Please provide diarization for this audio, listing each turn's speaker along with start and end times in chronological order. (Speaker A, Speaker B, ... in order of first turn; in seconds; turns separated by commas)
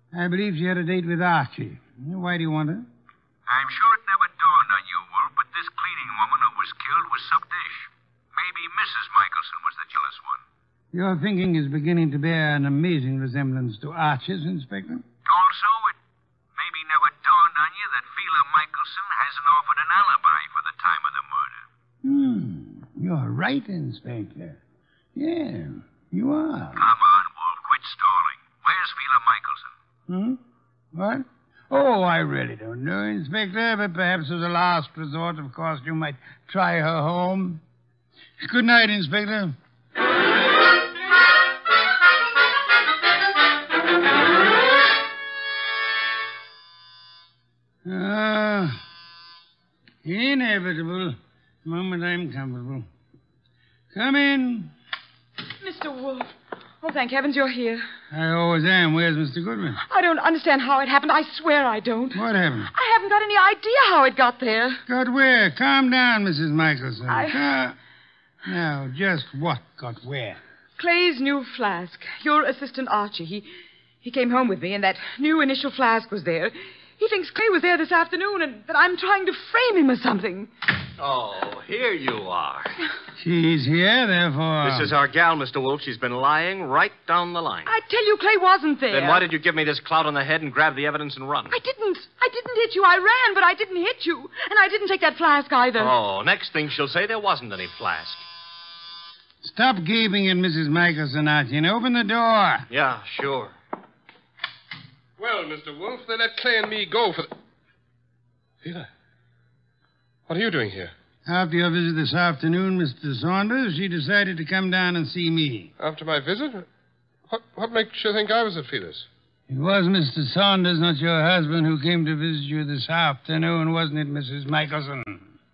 Speaker A: 0.1-2.9, Speaker B: 3.5-10.4, Speaker A: 10.9-15.0, Speaker B: 15.2-16.0, Speaker B: 16.6-21.6, Speaker A: 22.0-24.6, Speaker A: 25.1-26.9, Speaker B: 26.8-29.7, Speaker A: 30.1-30.4, Speaker A: 30.9-37.6, Speaker A: 38.4-39.6, Speaker A: 47.9-48.8, Speaker A: 50.0-52.9, Speaker A: 53.9-54.7, Speaker C: 55.6-57.9, Speaker A: 58.1-59.8, Speaker C: 59.9-64.8, Speaker A: 62.1-62.7, Speaker A: 64.9-67.8, Speaker C: 67.1-67.4, Speaker A: 68.5-70.4, Speaker C: 70.8-73.5, Speaker C: 74.0-80.5, Speaker D: 81.0-82.8, Speaker A: 83.2-84.9, Speaker D: 84.6-87.7, Speaker C: 87.7-89.2, Speaker D: 88.9-91.6, Speaker C: 91.5-95.9, Speaker D: 95.8-98.2, Speaker A: 99.4-102.7, Speaker D: 102.7-103.5, Speaker E: 105.2-107.3, Speaker E: 108.6-108.9, Speaker E: 110.3-110.9, Speaker A: 111.3-115.7, Speaker E: 115.8-116.7, Speaker E: 117.3-119.1, Speaker A: 119.5-125.2